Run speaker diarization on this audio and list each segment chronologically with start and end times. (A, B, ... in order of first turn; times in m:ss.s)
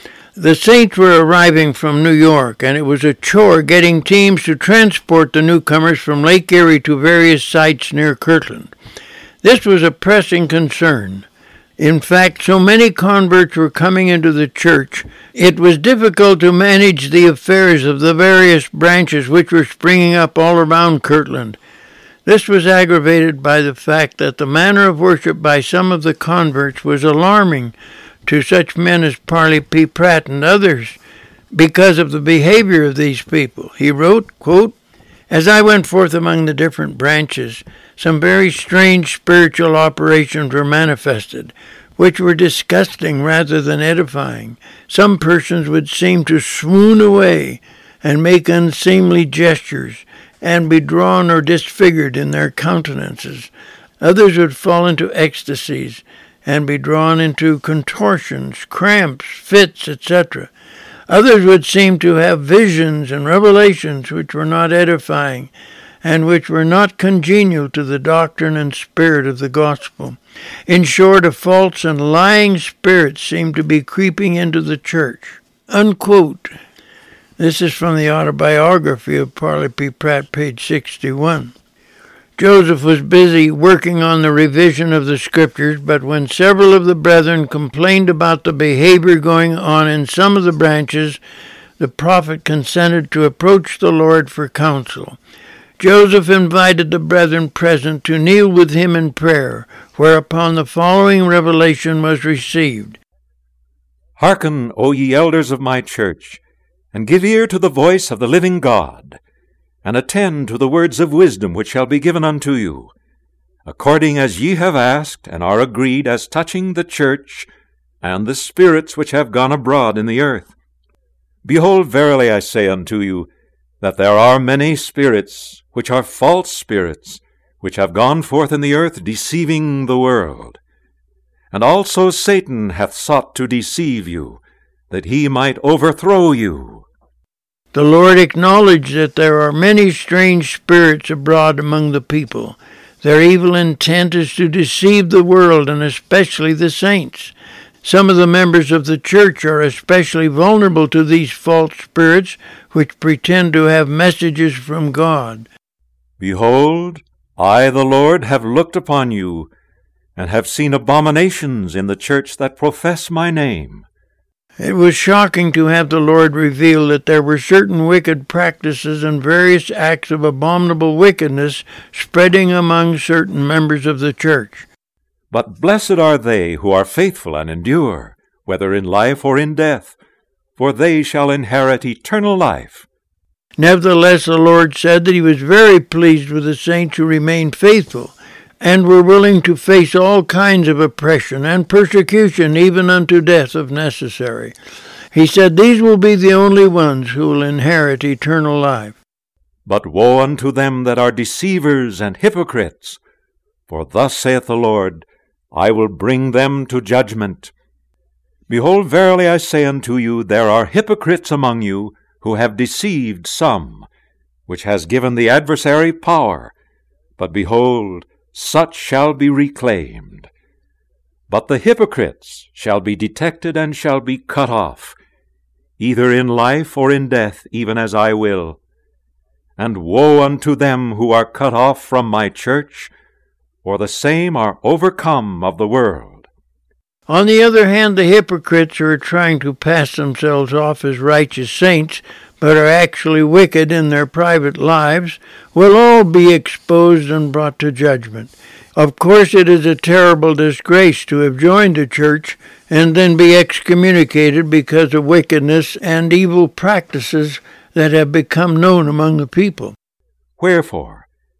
0:00.4-0:08.7 A
0:09.4-0:11.2 A
0:11.8-0:21.6 A
0:22.2-0:27.7 A
0:28.2-0:31.0 A
0:31.5-0:34.8 A
0:35.3-0:53.5 A
0:54.0-1:00.5 A
1:01.1-1:05.5 A
1:06.0-1:16.5 A
1:17.4-1:21.5 A
1:22.4-1:31.2 A
1:31.8-1:35.2 A
1:35.8-1:43.0 A
1:44.2-1:46.4 B
1:46.9-1:49.2 B
1:49.8-1:52.9 B
1:53.6-1:57.5 B
1:58.0-2:00.5 B
2:01.4-2:03.3 B
2:03.8-2:10.6 B
2:11.5-2:16.8 B
2:17.7-2:35.5 A
2:36.2-2:39.5 B
2:40.2-2:43.8 B
2:44.6-2:54.7 A
2:55.3-3:00.0 B
3:00.6-3:02.8 B
3:03.6-3:14.5 A
3:15.1-3:19.0 A
3:19.6-3:23.0 B
3:23.7-3:27.5 B
3:28.5-3:33.9 B
3:34.5-3:36.5 B
3:37.2-3:40.3 B
3:41.3-3:45.0 B
3:45.8-3:48.6 B
3:49.6-3:52.9 B
3:53.6-3:56.3 B
3:57.1-4:19.8 A
4:20.4-4:21.0 B